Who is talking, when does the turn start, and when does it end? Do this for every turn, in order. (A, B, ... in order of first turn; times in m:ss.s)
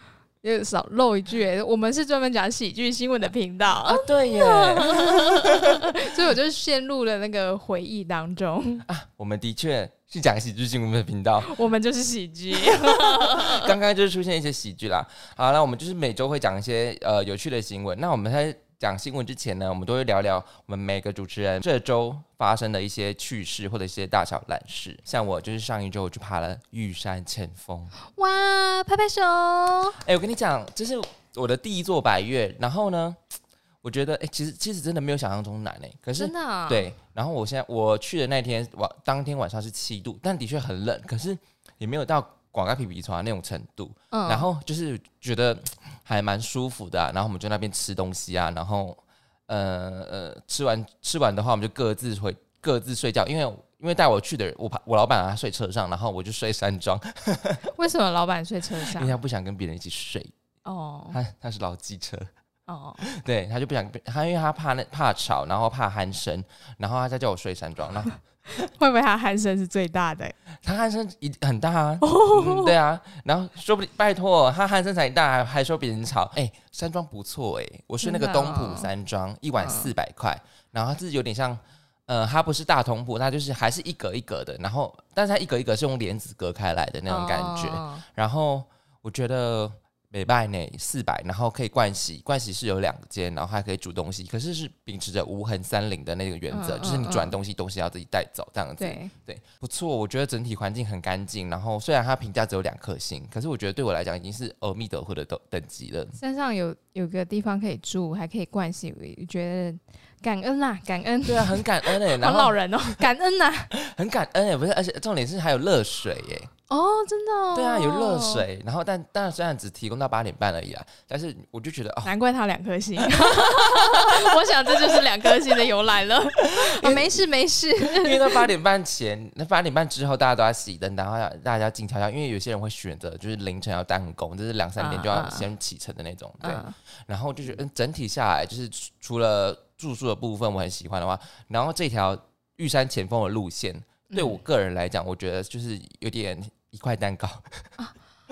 0:00.4-0:08.8 A
0:03.8-0:06.1 B
0:08.8-0:11.5 B
0:11.4-0:13.7 A
0:13.2-0:27.9 B
0:28.1-0:30.0 A
0:30.0-0:33.2 B
0:33.8-0:57.7 B
0:36.2-0:36.9 A
0:44.1-0:44.5 A
0:57.7-0:59.1 A
0:58.9-1:00.3 B
1:00.6-1:01.2 A
1:01.1-1:02.3 B
1:02.7-1:03.0 A
1:03.0-1:08.2 B
1:08.5-1:10.3 A
1:10.6-1:46.2 B
1:12.0-1:12.7 A
1:18.0-1:18.9 A
1:19.6-1:19.9 A
1:27.1-1:28.0 A
1:36.5-1:37.4 A
1:38.8-1:39.1 A
1:46.2-1:53.7 A
1:51.2-1:52.6 B
1:53.7-1:56.5 B
1:56.7-1:58.4 A
1:57.5-2:02.1 B
2:02.0-2:08.5 A
2:03.1-2:04.2 B
2:06.5-2:07.0 B
2:07.8-2:27.6 B
2:14.8-2:15.4 A
2:16.4-2:16.7 A
2:24.1-2:24.4 A